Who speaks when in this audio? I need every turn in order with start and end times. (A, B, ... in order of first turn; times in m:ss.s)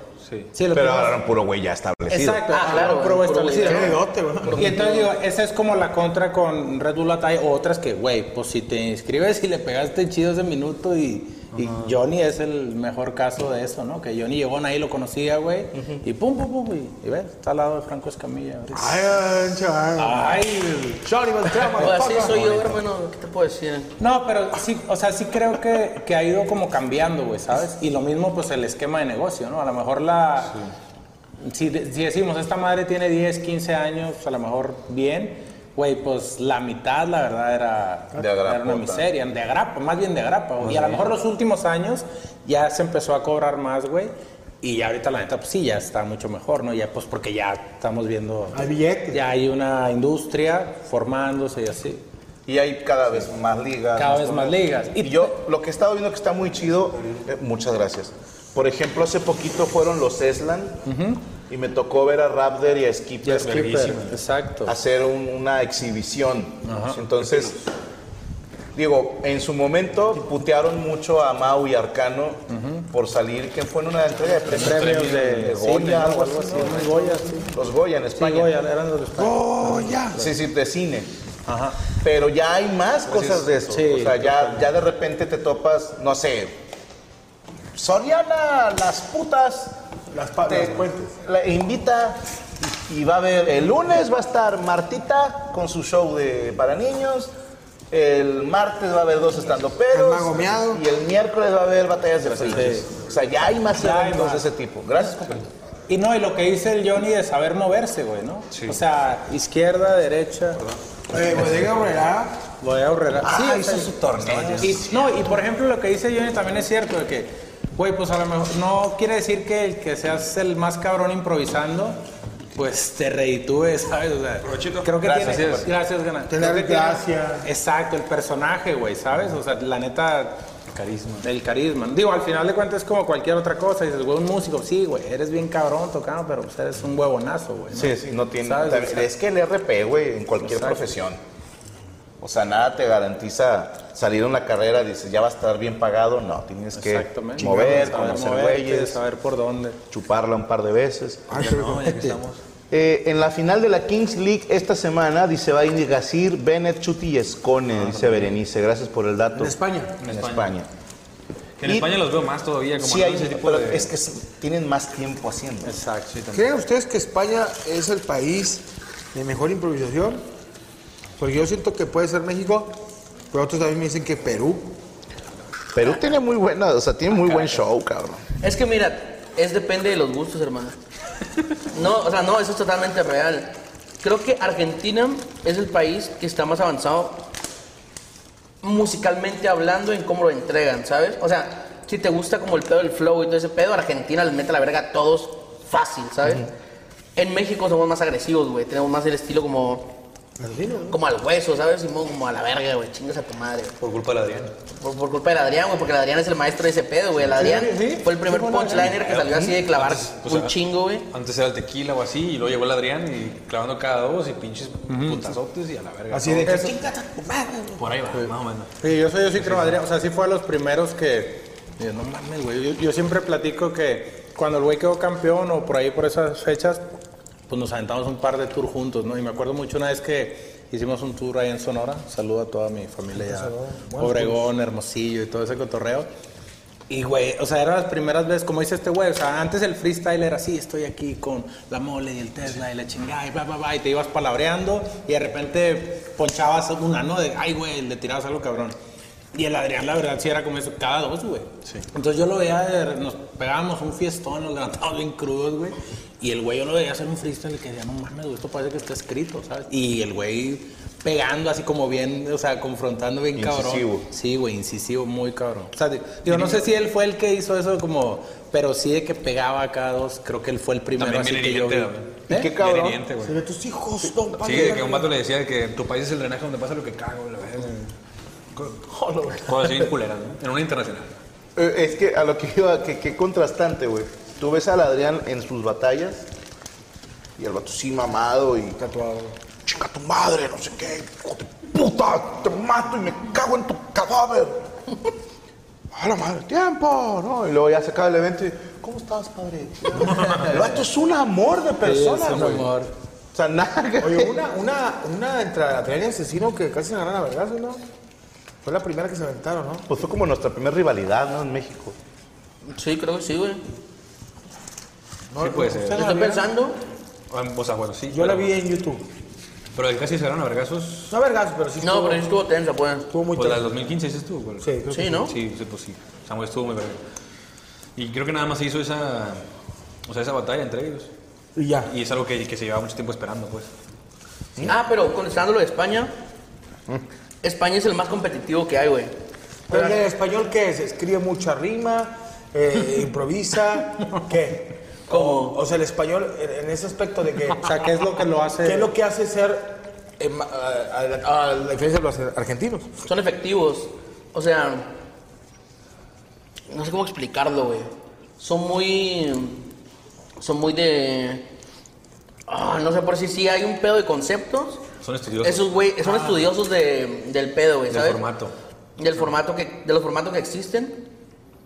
0:00.2-0:00.5 A
0:00.5-0:01.2 B
0:00.7-0:02.5 C
0:02.1-0:19.0 B
0:02.5-0:05.1 D
0:03.5-0:04.7 E
0:11.6-0:11.9 A
0:18.7-0:22.5 E
0:20.0-0:21.0 B
0:21.8-0:23.9 D
0:24.0-0:30.6 B
0:31.4-0:52.0 B
0:38.2-0:39.1 C
0:40.6-0:41.1 A
0:48.5-0:49.2 E
0:52.5-1:00.8 C
0:54.0-0:55.4 B
1:00.9-1:01.2 B
1:01.5-1:04.0 C
1:03.2-1:04.7 B
1:03.4-1:04.2 A
1:04.7-1:07.6 C
1:06.6-1:07.1 B
1:08.8-1:16.8 C
1:12.5-1:12.9 B
1:14.3-1:17.6 B
1:14.6-1:15.6 A
1:16.5-1:17.4 E
1:17.5-1:18.5 C
1:18.2-1:20.3 B
1:19.2-1:20.2 E
1:20.2-1:21.1 C
1:21.5-1:21.8 B
1:22.0-1:26.6 C
1:23.2-1:24.7 B
1:27.8-1:29.8 C
1:30.1-1:31.2 E
1:30.4-1:32.2 C
1:32.9-1:37.3 C
1:37.9-1:45.5 C
1:39.9-1:40.8 E
1:42.3-1:43.0 B
1:43.7-1:44.5 B
1:45.9-1:50.6 B
1:48.5-1:48.8 A
1:51.1-1:52.4 E
1:52.6-1:54.0 B
1:53.2-1:55.0 C
1:54.4-1:54.6 A
1:54.6-2:02.0 B
2:02.6-2:10.5 B
2:04.6-2:05.7 A
2:05.0-2:05.5 C
2:06.3-2:07.5 E
2:10.7-2:11.2 A
2:11.2-2:19.1 B
2:17.7-2:21.2 C
2:20.4-2:20.9 B
2:22.2-2:29.0 C
2:26.8-2:29.8 B
2:29.9-2:31.3 C
2:31.3-2:32.0 E
2:31.3-2:32.4 A
2:31.8-2:32.2 B
2:32.7-2:39.5 C
2:37.8-2:38.3 A
2:39.4-2:40.0 E
2:40.0-2:40.5 A
2:40.1-2:40.7 C
2:41.6-2:43.9 A
2:41.6-2:41.9 C
2:42.8-2:45.8 C
2:45.6-2:46.2 B
2:46.1-2:46.5 A
2:46.3-2:50.2 E
2:51.2-2:52.8 E
2:53.3-2:54.7 E
2:55.8-2:58.2 C
2:58.4-3:00.8 D
3:01.7-3:07.2 D
3:08.6-3:16.5 D
3:17.2-3:19.9 D
3:20.4-3:21.0 E
3:20.9-3:23.8 D
3:23.8-3:24.5 A
3:24.8-3:31.1 D
3:27.3-3:27.9 E
3:27.3-3:29.0 B
3:28.8-3:30.6 A
3:31.1-3:36.7 A
3:34.9-3:35.4 B
3:36.1-3:37.8 E
3:36.5-3:36.7 B
3:37.8-3:38.7 A
3:38.1-3:46.9 B
3:39.4-3:39.8 A
3:47.5-3:56.1 B
3:53.1-3:54.4 E
3:56.9-4:08.8 B
4:09.3-4:32.5 B
4:23.4-4:24.0 C
4:26.3-4:26.7 A
4:31.0-4:33.4 A
4:32.3-4:33.0 C
4:33.2-4:35.1 E
4:34.3-4:37.9 A
4:38.6-4:39.9 E
4:39.4-4:41.1 A
4:41.6-4:46.3 C
4:47.4-4:48.8 C
4:48.8-4:49.4 E
4:49.6-4:54.7 C
4:55.9-5:02.7 C
5:01.8-5:02.9 B
5:03.3-5:04.4 C
5:04.0-5:07.8 E
5:08.6-5:09.9 E
5:09.9-5:12.0 C
5:12.7-5:13.6 D
5:15.3-5:16.5 E
5:15.4-5:16.1 A
5:15.9-5:16.8 D
5:17.3-5:18.6 A
5:18.1-5:19.1 E
5:19.7-5:21.2 A
5:21.1-5:22.3 E
5:21.8-5:23.1 D
5:23.1-5:23.7 E
5:23.4-5:24.7 A
5:24.6-5:25.4 E
5:24.9-5:25.3 D
5:25.2-5:27.0 A
5:28.0-5:29.5 A
5:30.0-5:31.1 A
5:31.6-5:31.9 E
5:31.9-5:33.7 A
5:34.6-5:36.1 D
5:37.4-5:39.1 D
5:39.7-5:47.7 E
5:45.1-5:45.6 D
5:47.6-5:48.9 B
5:48.6-5:53.0 E
5:53.0-5:54.9 D
5:56.7-5:59.6 D
6:00.4-6:01.5 D
6:02.5-6:04.8 D
6:05.0-6:06.5 A
6:05.4-6:08.2 D
6:07.9-6:08.6 A
6:09.0-6:11.0 D